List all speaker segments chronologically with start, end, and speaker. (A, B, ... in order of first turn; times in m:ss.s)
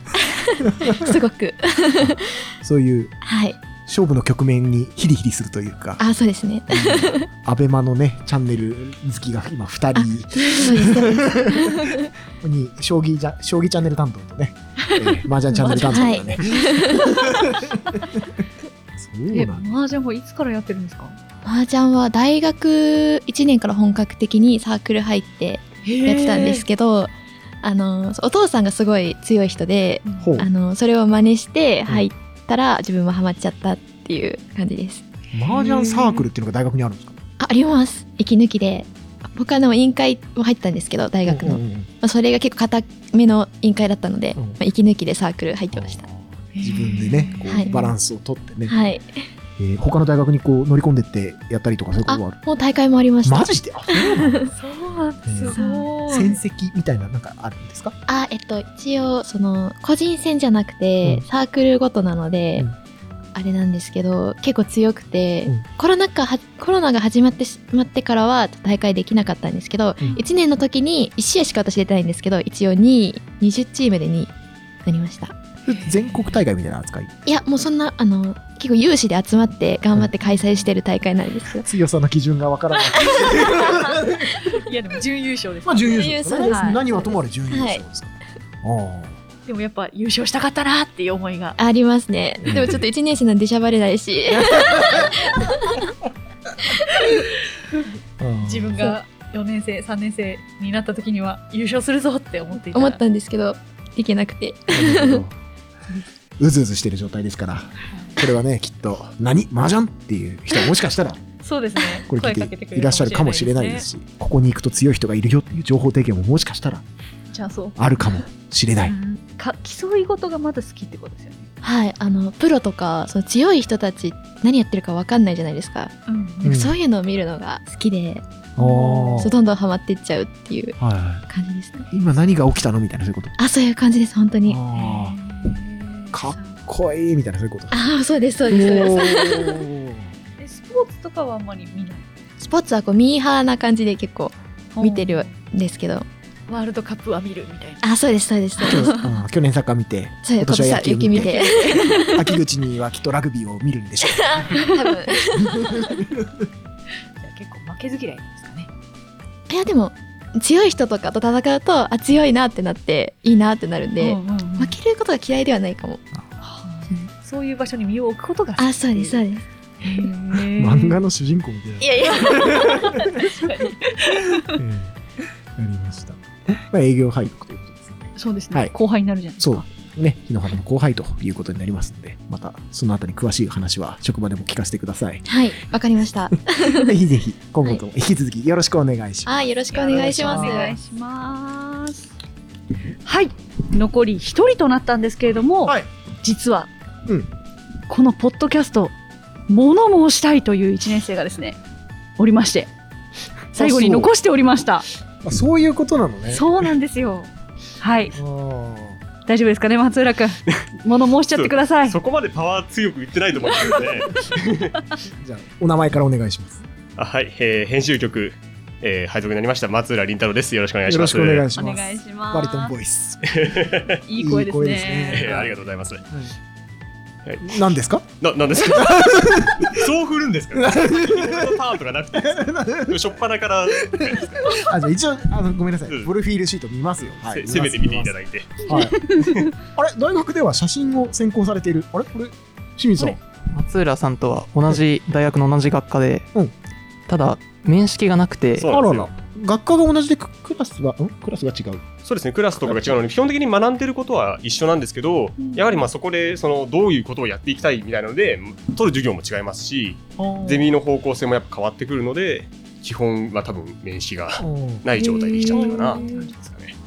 0:00.2-0:02.2 A
0:00.8-0:01.1 B
0:02.6-0:03.2 B
0:03.2-0:03.6 A
0:03.8-0:06.0 B
0:06.0-0:07.3 A
0:06.7-0:11.9 B
0:10.0-0:12.1 A
0:12.4-0:18.1 B
0:14.9-0:17.5 C
0:15.8-0:17.1 A
0:19.0-0:19.7 B
0:19.3-0:21.2 C
0:21.4-0:35.0 A
0:25.8-0:26.7 C
0:30.0-0:30.3 C
0:30.2-0:30.5 B
0:35.3-0:37.2 B
0:35.5-0:36.3 C
0:37.4-0:46.0 A
0:41.3-0:41.9 B
0:45.7-0:48.8 B
0:46.5-0:47.9 C
0:47.5-0:47.8 A
0:48.7-0:49.1 A
0:49.6-0:52.4 B
0:52.1-0:54.5 A
0:53.2-0:54.5 B
0:54.5-0:56.4 C
0:55.3-0:58.0 B
0:55.5-0:55.9 A
0:58.1-1:02.7 A
1:03.4-1:14.3 A
1:14.8-1:15.4 A
1:15.7-1:17.2 B
1:15.7-1:16.4 C
1:17.3-1:21.7 A
1:21.6-1:24.4 B
1:23.0-1:27.0 C
1:25.6-1:29.2 B
1:25.9-1:27.8 A
1:29.5-1:31.6 C
1:31.6-1:35.9 A
1:32.4-1:32.8 B
1:34.3-1:35.2 B
1:37.0-1:37.9 C
1:38.2-1:39.0 B
1:38.4-1:43.0 C
1:42.7-1:45.2 A
1:44.7-1:45.4 B
1:46.4-1:51.2 B
1:51.4-1:53.9 C
1:52.1-1:56.8 B
1:57.3-1:58.0 C
1:57.8-1:59.0 B
1:58.8-2:01.4 C
2:01.6-2:08.2 A
2:06.1-2:06.5 C
2:06.4-2:06.8 B
2:08.6-2:09.3 B
2:08.6-2:09.3 C
2:09.2-2:10.8 A
2:10.8-2:11.2 B
2:11.3-2:11.9 A
2:11.9-2:13.4 B
2:13.4-2:14.6 A
2:14.5-2:15.2 B
2:14.7-2:16.6 C
2:16.1-2:17.8 B
2:17.7-2:19.6 A
2:18.5-2:20.1 B
2:18.5-2:19.1 C
2:20.4-2:22.0 C
2:22.4-2:26.1 A
2:24.8-2:25.4 C
2:26.5-2:27.8 C
2:27.8-2:29.0 A
2:28.6-2:29.0 C
2:28.6-2:34.7 B
2:30.2-2:32.3 A
2:31.2-2:32.0 C
2:34.1-2:35.9 A
2:35.4-2:36.4 B
2:37.2-2:38.7 C
2:39.5-2:46.0 A
2:44.0-2:44.8 C
2:46.4-2:49.2 C
2:48.6-2:49.4 A
2:49.8-2:51.0 C
2:50.3-2:53.3 B
2:51.8-2:52.9 A
2:52.2-2:54.6 C
2:54.5-2:55.0 B
2:55.6-2:58.7 B
2:58.2-2:59.6 C
2:59.4-3:05.3 B
3:05.3-3:07.0 A
3:06.6-3:10.8 B
3:09.3-3:10.8 A
3:09.7-3:12.1 C
3:13.0-3:16.7 C
3:17.9-3:19.0 C
3:19.5-3:21.6 C
3:22.2-3:22.7 C
3:23.5-3:24.9 C
3:23.6-3:24.1 B
3:25.2-3:26.5 B
3:26.3-3:28.2 C
3:28.1-3:29.0 B
3:29.3-3:32.0 C
3:31.3-3:34.7 D
3:35.2-3:36.6 B
3:37.0-3:41.5 D
3:40.9-3:43.3 B
3:41.6-3:42.7 C
3:43.3-3:44.0 D
3:44.1-3:45.5 C
3:44.2-3:46.3 B
3:45.1-3:46.0 D
3:47.2-3:54.4 D
3:47.4-3:49.8 B
3:50.5-3:51.6 B
3:52.1-3:53.0 B
3:53.9-3:58.1 B
3:57.0-3:59.5 D
3:58.7-3:59.0 B
3:58.7-3:59.3 C
3:59.7-4:03.2 B
4:03.6-4:06.3 E
4:04.6-4:04.8 B
4:07.1-4:08.7 E
4:08.6-4:09.1 D
4:08.7-4:11.9 B
4:12.0-4:26.8 D
4:12.6-4:13.0 B
4:15.4-4:15.9 C
4:20.2-4:20.7 B
4:24.4-4:26.3 B
4:25.0-4:26.3 C